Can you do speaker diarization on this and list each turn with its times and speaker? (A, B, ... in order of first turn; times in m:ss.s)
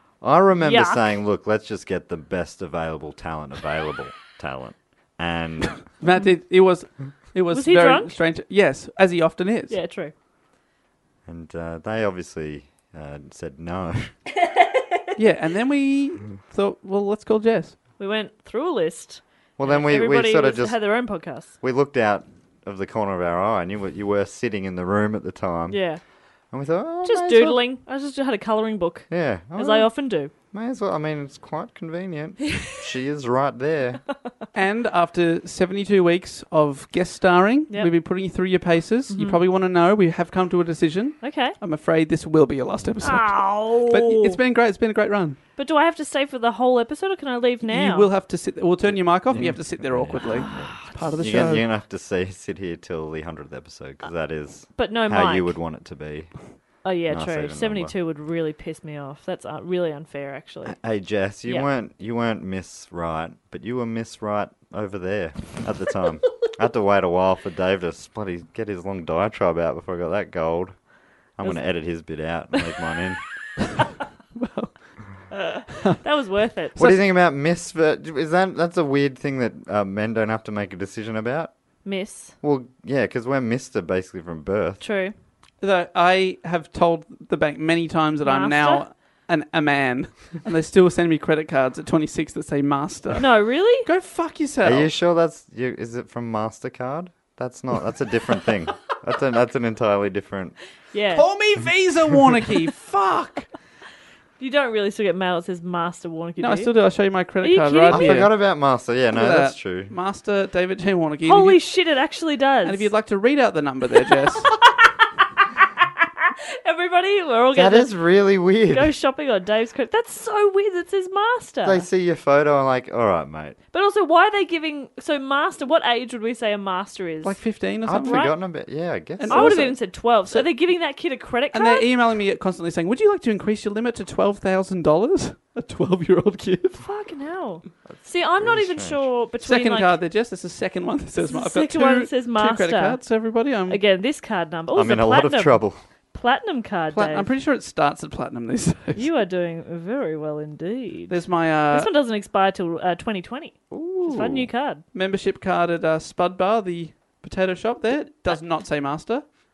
0:00.2-0:05.8 A
0:00.6-0:01.0 B
0:06.0-0:09.8 C
0:07.5-0:08.2 B
0:09.7-0:10.1 B
0:11.2-0:14.2 A
0:15.2-0:17.8 C
0:18.0-0:21.5 B
0:19.6-0:20.8 A
0:21.6-0:25.8 A
0:25.7-0:26.0 B
0:26.5-0:27.6 A
0:27.0-0:30.3 B
0:29.1-0:29.9 A
0:30.5-0:34.0 A
0:34.6-0:45.4 C
0:39.1-0:39.4 B
0:41.2-0:41.6 B
0:43.0-0:44.4 B
0:45.6-0:48.1 B
0:47.7-0:51.6 C
0:49.3-0:56.3 A
0:50.2-0:51.2 B
0:54.8-0:55.6 B
0:56.8-1:00.8 B
0:57.1-0:57.9 A
1:00.7-1:10.8 A
1:11.4-1:13.2 A
1:14.4-1:14.7 C
1:15.3-1:16.8 B
1:16.8-1:21.5 A
1:21.8-1:22.3 B
1:22.4-1:24.8 A
1:24.8-1:25.1 B
1:25.6-1:33.3 C
1:28.2-1:28.8 B
1:33.2-1:33.9 B
1:33.8-1:34.9 C
1:34.6-1:40.6 A
1:40.9-1:41.3 B
1:41.1-1:43.5 C
1:44.4-1:48.3 B
1:46.4-1:48.3 C
1:47.9-1:49.9 A
1:49.1-1:51.6 C
1:51.3-1:52.9 B
1:52.6-1:54.6 C
1:54.1-1:54.8 B
1:56.6-1:57.9 B
1:57.5-1:58.9 A
1:58.7-2:01.8 B
2:01.6-2:03.6 A
2:03.7-2:07.4 B
2:07.2-2:08.3 C
2:07.8-2:09.7 A
2:09.2-2:10.5 C
2:09.3-2:11.9 B
2:11.5-2:16.8 C
2:16.8-2:20.0 B
2:17.8-2:19.1 A
2:19.4-2:23.8 C
2:21.2-2:23.0 B
2:23.7-2:25.6 B
2:24.7-2:25.8 A
2:26.1-2:27.3 B
2:26.9-2:29.1 C
2:28.9-2:34.8 B
2:31.1-2:31.9 C
2:33.7-2:34.5 A
2:34.9-2:39.3 C